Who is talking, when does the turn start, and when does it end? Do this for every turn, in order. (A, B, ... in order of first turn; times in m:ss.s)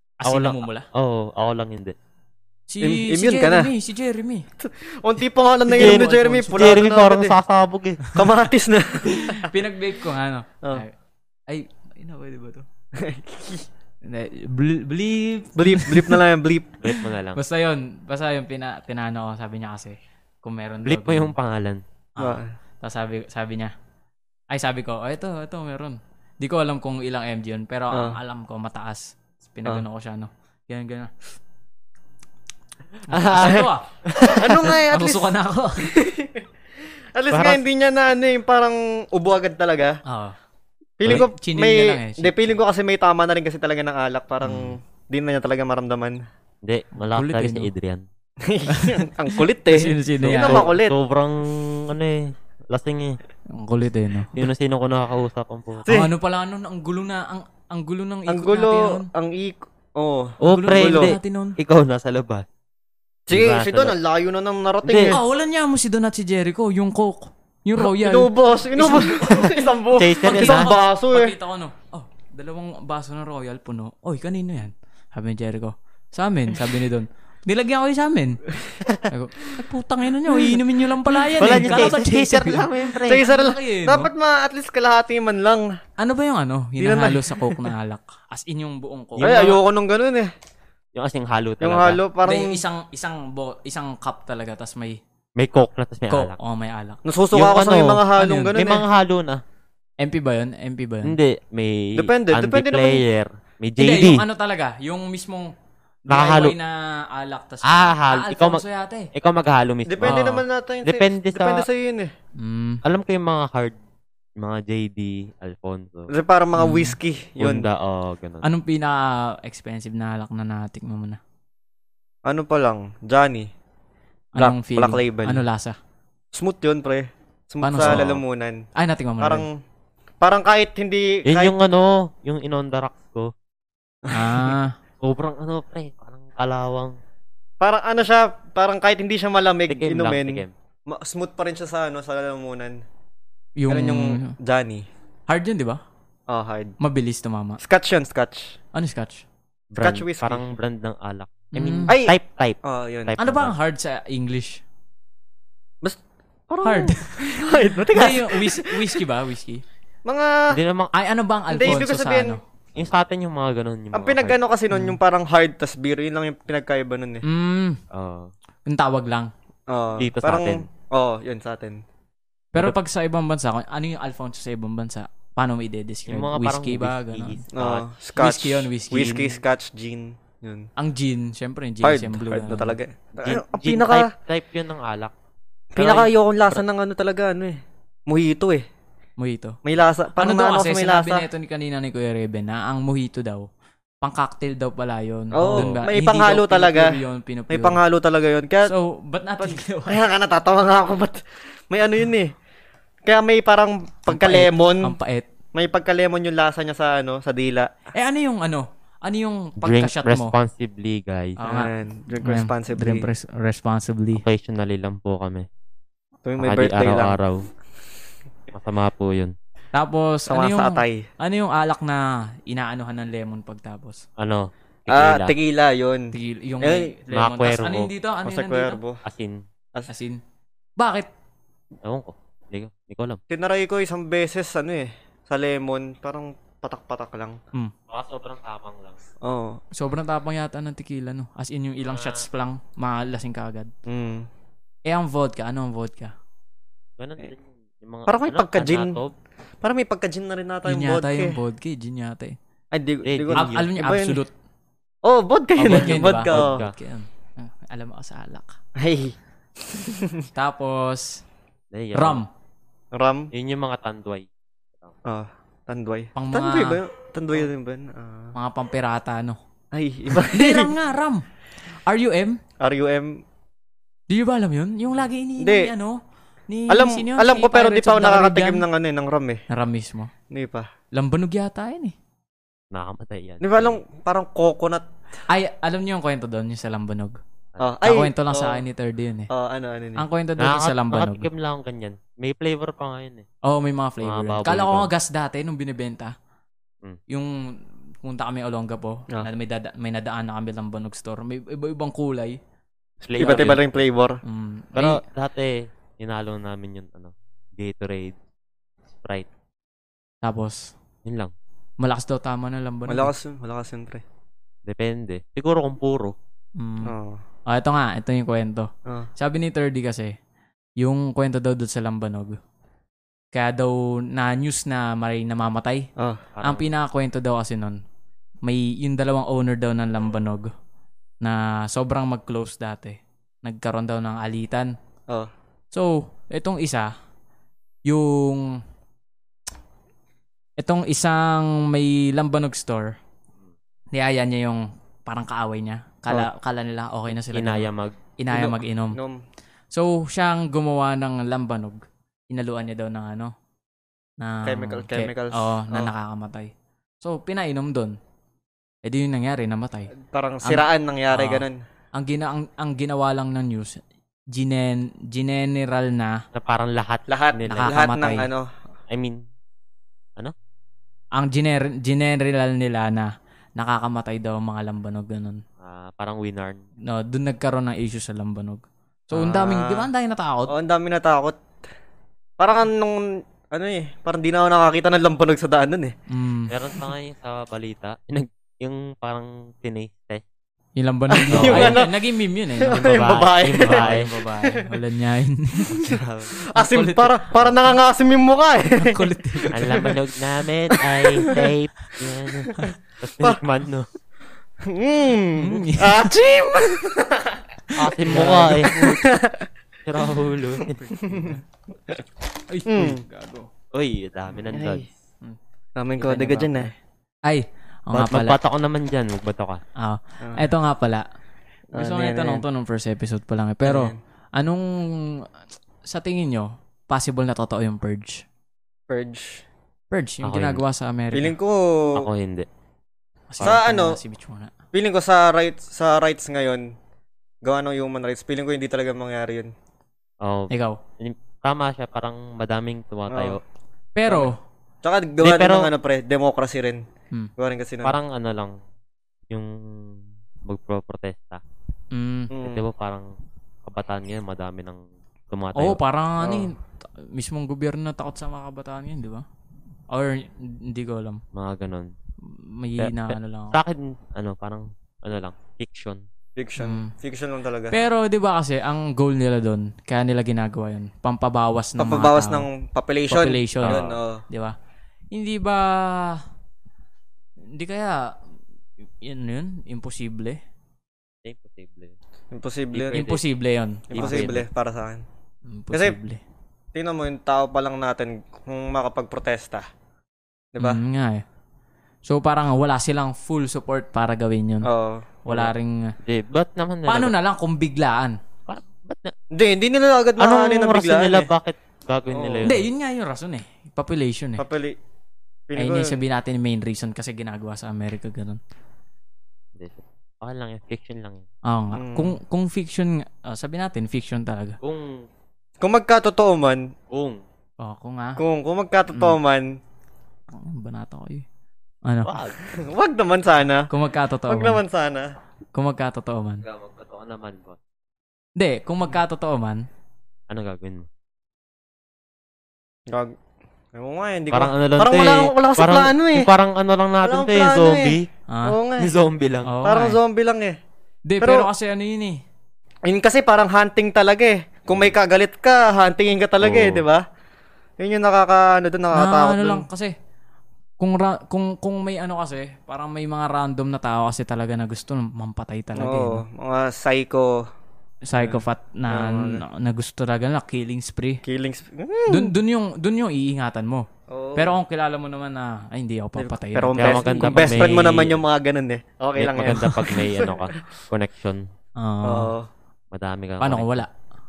0:00.2-0:00.9 A
0:00.2-0:01.9 B
0:02.7-0:04.5 A
0:02.8-0:03.7 C
0:04.6-0:07.3 C
0:05.7-0:06.8 A
0:05.8-0:08.2 B
0:08.1-0:09.5 C
0:09.3-0:10.9 A
0:11.5-0:12.6 A
0:13.0-0:13.7 C
0:14.0-0:16.2 A
0:15.6-0:16.8 C
0:16.8-0:17.4 B
0:17.3-0:21.3 A
0:20.8-0:21.8 B
0:22.2-0:23.7 A
0:22.2-0:22.5 C
0:24.5-0:31.1 A
0:27.9-0:28.2 C
0:33.1-0:33.9 A
0:33.1-0:34.7 B
0:33.4-0:36.4 C
0:34.6-0:35.9 A
0:37.1-0:40.0 C
0:37.3-0:37.6 B
0:40.0-0:40.4 A
0:41.0-0:46.2 C
0:41.0-0:42.6 A
0:44.4-0:44.7 A
0:46.6-0:48.0 B
0:47.0-0:47.7 A
0:48.4-0:51.0 C
0:48.7-0:50.7 A
0:50.2-0:53.2 B
0:53.5-0:54.4 A
0:54.3-0:55.9 B
0:55.8-0:56.1 C
0:55.9-0:59.1 A
0:58.3-1:01.2 C
1:00.4-1:02.4 B
1:00.4-1:01.6 A
1:03.3-1:05.2 C
1:03.3-1:04.0 B
1:04.8-1:05.1 B
1:05.1-1:09.2 A
1:07.8-1:11.3 C
1:09.3-1:10.7 B
1:10.2-1:18.4 A
1:19.1-1:24.1 A
1:21.2-1:22.0 C
1:21.4-1:23.2 B
1:23.0-1:25.7 C
1:26.0-1:29.6 A
1:26.8-1:27.7 C
1:29.2-1:30.3 C
1:30.9-1:32.0 B
1:31.6-1:32.6 C
1:32.2-1:35.0 A
1:35.4-1:36.4 B
1:36.1-1:37.0 A
1:37.0-1:38.8 C
1:37.3-1:39.4 B
1:38.2-1:38.5 A
1:40.0-1:41.2 A
1:41.0-1:44.2 B
1:41.9-1:43.0 C
1:43.8-1:45.5 A
1:46.1-1:49.1 A
1:46.1-1:46.5 B
1:47.6-1:48.6 B
1:49.1-1:50.2 B
1:49.8-1:52.1 C
1:50.0-1:50.4 A
1:50.8-1:51.7 B
1:52.4-1:52.8 A
1:52.8-1:53.8 B
1:54.4-1:56.1 B
1:56.1-1:57.7 C
1:56.6-1:57.0 A
1:57.4-1:58.4 B
1:58.4-2:01.2 A
2:02.2-2:03.5 C
2:04.3-2:05.8 A
2:04.4-2:05.4 C
2:06.3-2:08.6 C
2:07.6-2:08.0 A
2:07.8-2:08.2 B
2:08.8-2:09.4 A
2:09.2-2:09.6 C
2:10.2-2:11.5 C
2:11.2-2:13.3 B
2:14.0-2:14.5 C
2:14.1-2:14.7 A
2:15.0-2:17.0 B
2:17.6-2:22.8 C
2:19.7-2:20.5 B
2:23.6-2:24.4 A
2:23.7-2:24.9 C
2:25.3-2:25.8 A
2:26.3-2:26.7 C
2:26.8-2:27.6 A
2:27.6-2:28.6 C
2:28.7-2:29.2 A
2:29.7-2:33.5 B
2:29.8-2:30.4 C
2:31.5-2:31.9 A
2:31.9-2:33.1 C
2:33.2-2:34.6 A
2:35.8-2:39.0 C
2:36.6-2:39.6 A
2:40.0-2:40.6 C
2:40.5-2:40.9 B
2:40.9-2:42.4 A
2:41.5-2:42.4 C
2:42.8-2:44.4 B
2:43.9-2:47.2 C
2:44.7-2:45.0 A
2:47.2-2:47.8 A
2:47.9-2:48.3 B
2:48.6-2:49.3 A
2:49.7-2:51.8 C
2:50.0-2:50.6 B
2:52.5-2:57.4 A
2:56.1-2:57.8 B
2:57.5-3:00.7 C
2:58.2-2:59.4 A
3:00.8-3:02.8 A
3:01.8-3:04.1 C
3:03.2-3:05.1 B
3:05.7-3:08.6 C
3:05.8-3:06.6 B
3:09.2-3:09.6 A
3:09.6-3:11.2 C
3:10.2-3:13.5 A
3:14.0-3:17.8 A
3:15.3-3:17.0 C
3:15.5-3:15.8 B
3:17.5-3:18.7 C
3:18.6-3:20.0 A
3:19.4-3:22.3 C
3:23.0-3:25.0 C
3:24.1-3:25.3 A
3:25.5-3:27.7 C
3:27.9-3:30.3 A
3:29.6-3:31.4 B
3:31.4-3:31.7 A
3:31.5-3:33.1 C
3:32.2-3:34.2 A
3:34.1-3:35.5 B
3:36.2-3:37.2 C
3:36.4-3:37.4 B
3:38.5-3:39.3 B
3:39.7-3:44.0 A
3:40.3-3:41.1 C
3:44.2-3:45.3 B
3:44.9-3:46.9 C
3:46.1-3:48.8 A
3:47.1-3:47.9 B
3:48.2-3:49.0 C
3:49.0-3:49.4 B
3:49.9-3:50.2 A
3:50.8-3:51.1 A
3:51.8-3:53.2 B
3:53.3-3:57.4 C
3:57.9-3:59.0 B
3:59.2-3:59.6 C
3:59.8-4:03.7 A
4:01.8-4:02.2 B
4:03.8-4:04.3 C
4:04.9-4:06.1 A
4:07.0-4:09.1 B
4:08.1-4:09.0 C
4:09.6-4:11.4 C
4:10.6-4:12.4 A
4:12.7-4:14.2 C
4:13.0-4:13.7 B
4:13.3-4:14.3 A
4:15.0-4:16.6 C
4:15.6-4:18.6 A
4:15.7-4:16.7 B
4:18.8-4:19.2 C
4:19.7-4:20.3 C
4:20.3-4:21.2 A
4:21.7-4:22.2 B
4:21.9-4:22.3 A
4:22.9-4:23.3 C
4:23.3-4:24.2 B
4:25.0-4:28.3 C
4:26.1-4:26.8 A
4:28.3-4:29.4 A
4:29.7-4:30.7 C
4:30.1-4:31.2 A
4:31.8-4:32.4 A
4:32.6-4:33.2 C
4:34.1-4:38.6 A
4:35.4-4:35.7 C
4:36.7-4:39.4 C
4:39.5-4:40.1 A
4:40.3-4:40.7 C
4:40.9-4:41.9 A
4:42.7-4:43.8 B
4:43.4-4:44.8 C
4:45.3-4:47.2 A
4:47.6-4:48.6 C
4:47.8-4:49.3 A
4:49.3-4:50.0 C
4:50.0-4:51.3 A
4:50.4-4:53.2 B
4:53.4-4:56.1 A
4:54.0-4:54.9 B
4:57.1-5:02.4 A
5:03.0-5:03.8 B
5:03.2-5:04.2 C
5:04.2-5:05.0 A
5:04.7-5:08.2 B
5:09.0-5:09.3 B
5:10.2-5:10.7 A
5:11.0-5:11.3 B
5:11.8-5:13.1 A
5:12.9-5:14.0 C
5:14.6-5:16.1 B
5:16.6-5:16.9 A
5:16.8-5:17.2 C
5:17.5-5:20.1 A
5:20.8-5:22.4 A
5:23.3-5:25.9 A
5:26.0-5:26.2 C
5:26.3-5:26.7 B
5:26.4-5:27.8 A
5:28.4-5:30.5 A
5:31.2-5:34.7 A
5:35.7-5:36.9 A
5:37.9-5:38.6 A
5:40.6-5:43.0 A
5:43.9-5:49.0 A
5:47.3-5:48.0 B
5:48.3-5:49.2 C
5:49.7-5:53.3 A
5:54.2-5:56.5 A
5:54.4-5:55.9 C
5:57.0-5:58.0 A
5:58.8-5:59.9 A
6:00.0-6:01.6 C
6:00.4-6:03.8 A
6:04.3-6:06.2 A
6:06.3-6:07.9 B
6:07.1-6:08.5 C
6:07.5-6:08.3 A
6:08.9-6:09.2 B
6:11.2-6:15.4 A
6:15.6-6:16.6 B
6:16.8-6:20.5 A
6:19.1-6:19.9 C
6:20.5-6:21.4 C
6:22.4-6:25.9 C
6:26.1-6:26.5 A
6:26.5-6:30.2 B
6:30.8-6:36.0 A
6:31.1-6:31.9 C
6:31.3-6:31.8 B
6:32.6-6:34.7 C
6:32.7-6:34.1 B
6:35.7-6:36.3 B
6:35.8-6:39.9 C
6:36.5-6:37.3 A
6:38.8-6:39.9 A
6:39.5-6:43.9 B
6:40.7-6:41.5 C
6:42.6-6:43.4 C
6:44.6-6:47.4 C
6:45.4-6:46.1 A
6:47.8-6:49.0 B
6:48.0-6:49.5 C
6:48.1-6:48.4 A
6:49.8-6:50.8 B
6:50.8-6:51.4 A
6:51.0-6:52.0 C
6:52.5-6:53.5 A
6:52.7-6:53.0 C
6:53.7-6:54.9 B
6:54.5-6:54.9 C
6:55.8-6:56.7 C
6:56.0-6:56.7 A
6:57.2-6:58.4 A
6:57.9-6:59.6 B
6:59.8-7:01.0 A
7:01.7-7:02.4 C
7:01.7-7:05.2 A
7:03.6-7:04.0 C
7:05.8-7:08.2 A
7:08.9-7:09.4 C
7:09.9-7:11.3 A
7:10.2-7:10.6 B
7:11.1-7:12.1 C
7:11.9-7:12.5 B
7:13.3-7:14.5 A
7:13.4-7:14.0 C
7:14.7-7:16.7 C
7:17.4-7:19.5 C
7:20.2-7:23.4 B
7:20.5-7:20.8 A
7:23.1-7:23.4 C
7:23.9-7:24.4 A
7:24.8-7:26.8 C
7:25.2-7:25.7 B
7:27.4-7:28.0 C
7:27.8-7:28.5 B
7:29.3-7:31.4 B
7:31.9-7:32.3 A
7:32.3-7:32.6 C
7:32.4-7:33.1 B
7:33.6-7:35.8 B
7:35.5-7:39.2 A
7:36.2-7:36.5 C
7:39.9-7:41.2 A
7:41.3-7:41.9 B
7:42.2-7:43.6 A
7:42.8-7:46.0 B
7:46.4-7:47.8 C
7:46.6-7:46.9 A
7:47.7-7:52.5 A
7:51.8-7:54.2 C
7:53.1-7:54.5 A
7:53.6-7:54.0 B
7:55.1-7:56.2 A
7:57.5-7:58.2 A
7:59.0-8:00.4 A
8:01.2-8:01.9 B
8:02.3-8:03.0 C
8:02.7-8:03.2 B
8:02.9-8:04.3 A
8:03.9-8:05.0 C
8:03.9-8:04.4 B
8:05.5-8:06.2 A
8:05.7-8:06.0 C
8:06.7-8:09.7 C
8:10.5-8:10.8 C
8:10.6-8:11.2 A
8:12.1-8:14.7 A
8:14.6-8:15.5 C
8:15.2-8:15.9 A
8:16.0-8:17.1 B
8:16.9-8:18.2 A
8:18.5-8:19.1 B
8:19.3-8:21.3 C
8:20.2-8:22.7 B
8:22.1-8:22.5 C
8:22.4-8:24.4 A
8:24.4-8:24.8 C
8:25.5-8:26.0 C
8:25.6-8:28.4 A
8:29.6-8:31.3 B
8:31.4-8:34.6 A
8:31.7-8:32.2 C
8:34.6-8:35.0 B
8:35.6-8:36.7 C
8:36.9-8:37.2 B
8:37.6-8:38.2 A
8:38.2-8:39.6 C
8:38.9-8:39.2 A
8:40.3-8:41.2 A
8:41.8-8:42.1 A
8:42.0-8:42.4 B
8:42.5-8:43.7 C
8:43.7-8:44.6 A
8:44.3-8:45.1 C
8:45.5-8:46.4 A
8:46.4-8:47.6 B
8:48.4-8:49.6 A
8:50.3-8:50.9 B
8:52.9-8:53.1 C
8:53.7-8:56.3 C
8:54.3-8:58.1 B
8:57.0-8:59.0 C
8:58.3-8:58.6 A
8:58.8-8:59.5 B
8:59.4-9:00.0 A
8:59.6-9:00.6 C
9:01.0-9:02.2 A
9:01.2-9:01.5 C
9:02.8-9:07.0 C
9:06.4-9:06.8 B
9:07.8-9:09.7 C
9:08.9-9:09.9 A
9:10.8-9:16.2 A
9:15.8-9:17.5 C
9:18.0-9:21.2 A
9:18.2-9:19.4 C
9:21.2-9:22.3 C
9:22.1-9:27.8 A
9:24.1-9:24.6 C
9:26.2-9:30.5 C
9:26.8-9:28.2 B
9:29.2-9:31.4 B
9:31.8-9:32.3 A
9:32.0-9:32.5 C
9:32.9-9:33.8 B
9:33.4-9:33.9 A